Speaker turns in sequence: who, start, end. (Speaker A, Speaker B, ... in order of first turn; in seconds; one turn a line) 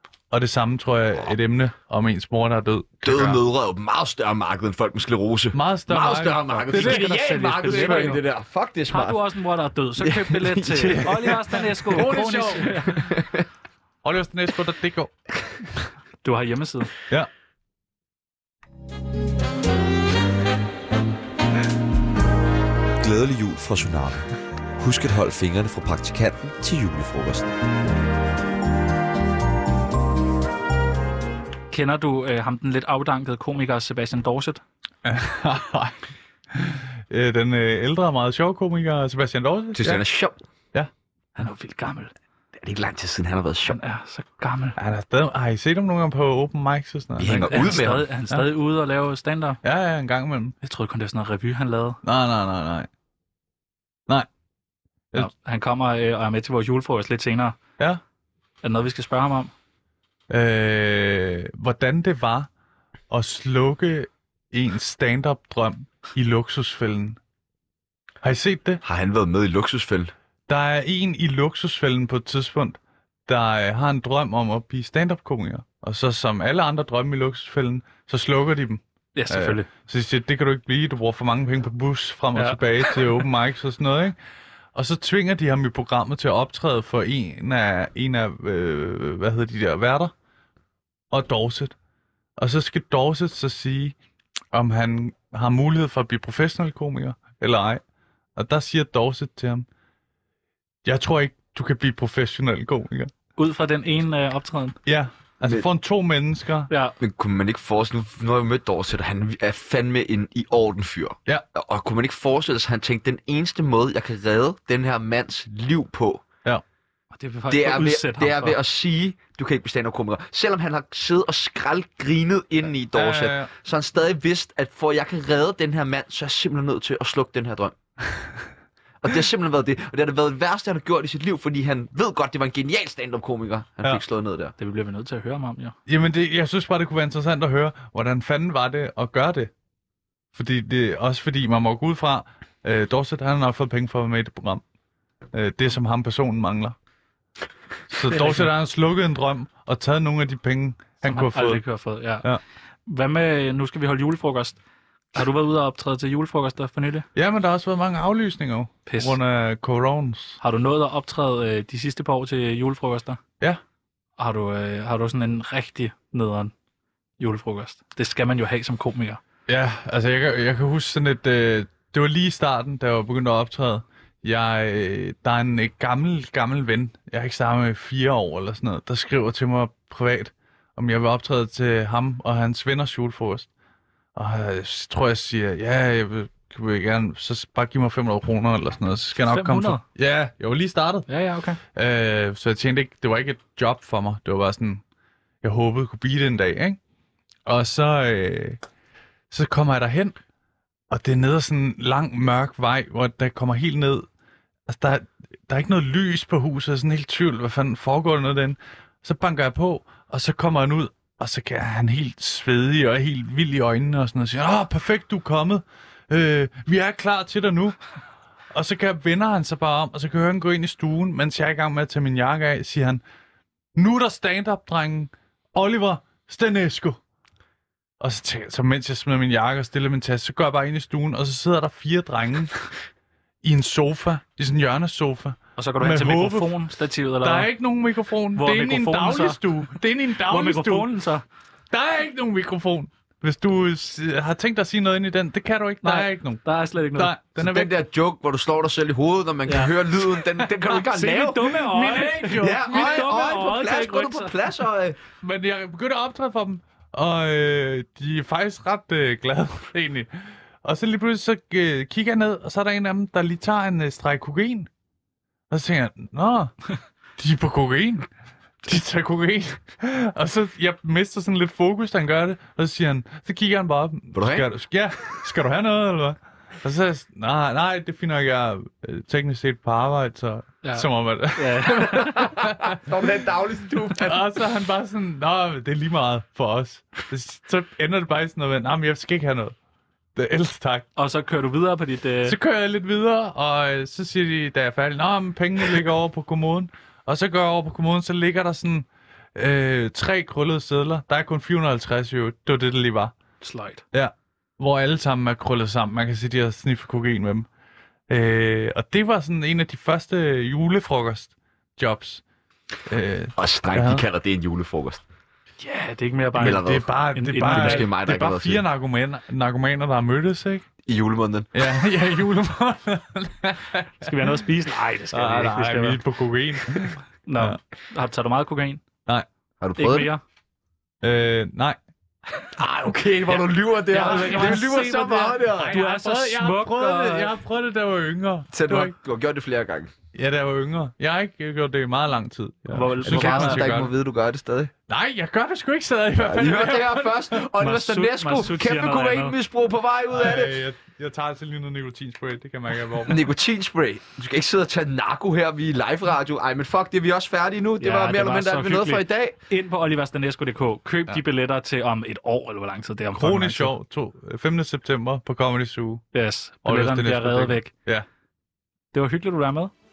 Speaker A: 0.3-3.4
Speaker B: 3.0-9.2
Speaker A: 5.5-8.2
Speaker C: 6.7-8.2
Speaker C: 8.9-13.1
Speaker B: 10.0-13.4
Speaker A: 11.9-12.9
Speaker A: 14.0-15.1
Speaker C: 16.2-16.9
Speaker D: 23.0-27.5
Speaker C: 31.7-34.6
Speaker A: 35.0-36.0
Speaker A: 36.5-40.0
Speaker B: 39.8-40.4
Speaker C: 41.4-42.1
Speaker B: 42.6-43.8
Speaker C: 43.7-44.8
Speaker A: 44.8-48.5
Speaker B: 47.2-48.0
Speaker C: 47.5-49.6
Speaker A: 49.6-50.5
Speaker C: 50.6-52.0
Speaker A: 52.0-52.9
Speaker C: 55.1-57.6
Speaker C: 58.6-59.5
Speaker A: 60.3-62.5
Speaker A: 63.1-67.2
Speaker A: 68.2-68.8
Speaker B: 68.8-70.1
Speaker A: 70.5-84.2
Speaker C: 79.2-79.7
Speaker C: 82.3-82.6
Speaker A: 84.8-90.1
Speaker A: 91.1-91.8
Speaker A: 92.4-94.0
Speaker A: 94.5-97.8
Speaker A: 98.4-99.7
Speaker A: 100.8-103.1
Speaker C: 103.4-104.8
Speaker A: 104.9-106.7
Speaker C: 106.7-107.0
Speaker B: 107.0-116.2
Speaker C: 117.1-118.6
Speaker B: 117.5-127.8
Speaker A: 122.9-123.5
Speaker B: 129.0-134.6
Speaker C: 134.6-135.8
Speaker A: 135.9-139.5
Speaker A: 140.3-144.6
Speaker A: 145.3-146.8
Speaker A: 147.9-151.6
Speaker C: 148.1-148.5
Speaker C: 151.0-152.3
Speaker C: 152.9-154.6
Speaker C: 155.2-157.1
Speaker A: 157.2-160.4
Speaker C: 158.9-159.2
Speaker C: 160.4-163.2
Speaker C: 164.2-166.5
Speaker C: 167.2-169.2
Speaker A: 169.5-183.5
Speaker A: 184.2-191.1
Speaker C: 189.2-189.8
Speaker C: 191.1-191.6
Speaker A: 191.7-194.8
Speaker A: 195.4-196.8
Speaker A: 197.5-198.6
Speaker A: 199.3-200.2
Speaker A: 200.9-204.1
Speaker A: 204.7-217.8
Speaker A: 218.5-223.0
Speaker A: 223.8-227.0
Speaker A: 228.0-232.5
Speaker A: 233.4-236.6
Speaker C: 235.6-237.5
Speaker A: 237.2-240.9
Speaker C: 238.4-239.4
Speaker C: 240.2-241.2
Speaker A: 241.7-246.4
Speaker C: 245.8-247.2
Speaker A: 246.9-247.7
Speaker B: 247.4-251.6
Speaker C: 249.5-249.7
Speaker A: 250.4-253.2
Speaker C: 250.9-254.3
Speaker B: 252.4-255.0
Speaker A: 255.2-260.1
Speaker A: 260.6-264.7
Speaker A: 265.5-266.5
Speaker A: 267.2-268.1
Speaker A: 268.6-282.8
Speaker B: 274.1-274.5
Speaker C: 280.6-282.3
Speaker B: 281.8-284.3
Speaker A: 283.9-289.6
Speaker A: 290.1-290.9
Speaker C: 291.0-292.4
Speaker A: 292.3-303.1
Speaker C: 303.4-303.8
Speaker A: 303.9-307.5
Speaker A: 308.1-312.2
Speaker A: 312.9-314.1
Speaker B: 313.4-315.0
Speaker C: 315.6-317.9
Speaker B: 316.4-318.6
Speaker A: 316.4-320.6
Speaker B: 320.9-321.5
Speaker A: 321.5-324.4
Speaker C: 324.0-326.0
Speaker A: 325.1-327.6
Speaker C: 327.3-328.8
Speaker B: 329.6-330.1
Speaker C: 329.8-330.2
Speaker A: 331.0-331.8
Speaker B: 332.5-335.8
Speaker C: 333.3-337.3
Speaker A: 334.0-334.7
Speaker A: 335.5-338.9
Speaker B: 338.5-339.9
Speaker A: 340.1-343.9
Speaker C: 342.7-343.8
Speaker B: 343.1-344.7
Speaker A: 344.9-347.7
Speaker B: 346.2-350.6
Speaker C: 347.6-349.4
Speaker A: 350.1-353.2
Speaker B: 353.0-359.4
Speaker C: 357.8-363.7
Speaker A: 363.1-366.0
Speaker C: 366.1-367.7
Speaker A: 366.6-368.1
Speaker C: 368.9-369.7